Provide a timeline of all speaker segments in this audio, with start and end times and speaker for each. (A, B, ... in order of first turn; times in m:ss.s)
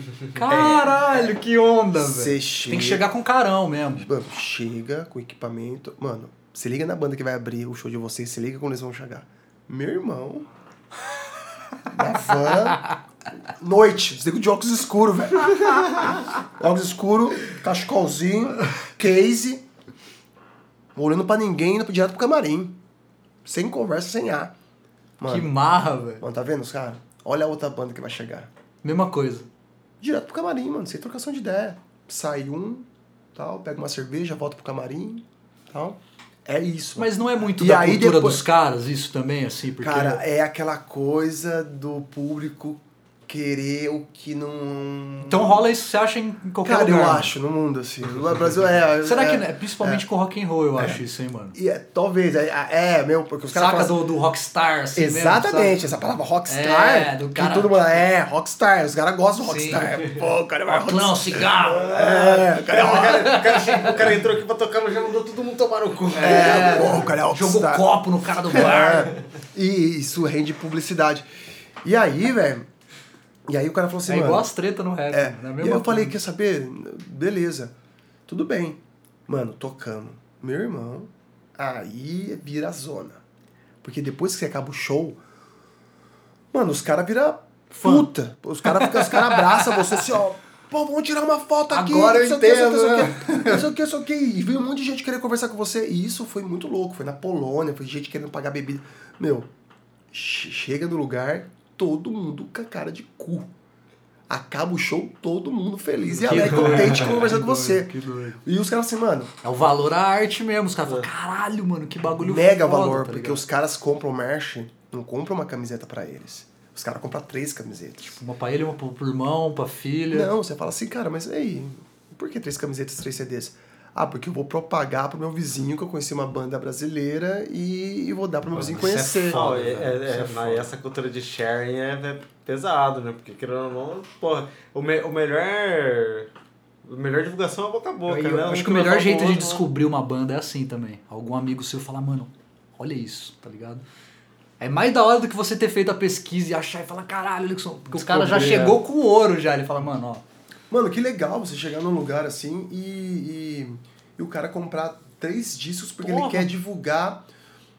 0:00.3-0:04.1 A
0:00.5-0:01.3 B
0:01.9-0:03.0 B
0:04.0-0:10.5 B
0:11.8-0:12.8 B
0:13.6-0:19.7 B
0:21.0-0:22.8 B
0:23.4-0:24.5 B
0:25.2-0:25.5 B
0:25.3-0:26.2 A
0:26.2-0:28.5 B
0:28.8-0:29.5 A
0:30.0-0:38.4 B
0:37.0-0:40.2 A
0:39.8-0:45.6 B
0:45.2-0:47.3 A
0:46.6-0:50.0 B
0:49.0-0:51.6 A
0:50.8-0:51.0 B
0:51.5-0:54.0 B
0:53.5-0:55.8 A
0:55.0-1:03.4 B
0:56.5-0:57.8 A
0:59.4-0:59.9 A
1:00.7-1:02.0 A
1:01.8-1:07.0 C
1:02.8-1:04.0 A
1:06.2-1:09.1 A
1:06.2-1:07.9 B
1:08.5-1:11.3 B
1:11.8-1:12.7 B
1:13.5-1:14.5 B
1:14.1-1:16.2 A
1:15.1-1:17.7 B
1:18.3-1:23.2 B
1:23.8-1:25.2 B
1:26.5-1:39.5 B
1:27.7-1:28.1 A
1:28.6-1:30.1 A
1:31.7-1:33.7 A
1:40.1-1:43.5 B
1:44.3-1:49.3 B
1:46.1-1:48.4 A
1:49.4-1:53.4 A
1:52.2-1:58.2 B
1:58.0-2:00.3 A
2:00.1-2:09.5 B
2:08.5-2:10.7 A
2:09.3-2:16.3 C
2:16.8-2:19.6 C
2:18.1-2:23.8 A
2:24.6-2:30.2 A
2:28.0-2:28.8 C
2:30.7-2:37.3 B
2:36.0-2:36.5 C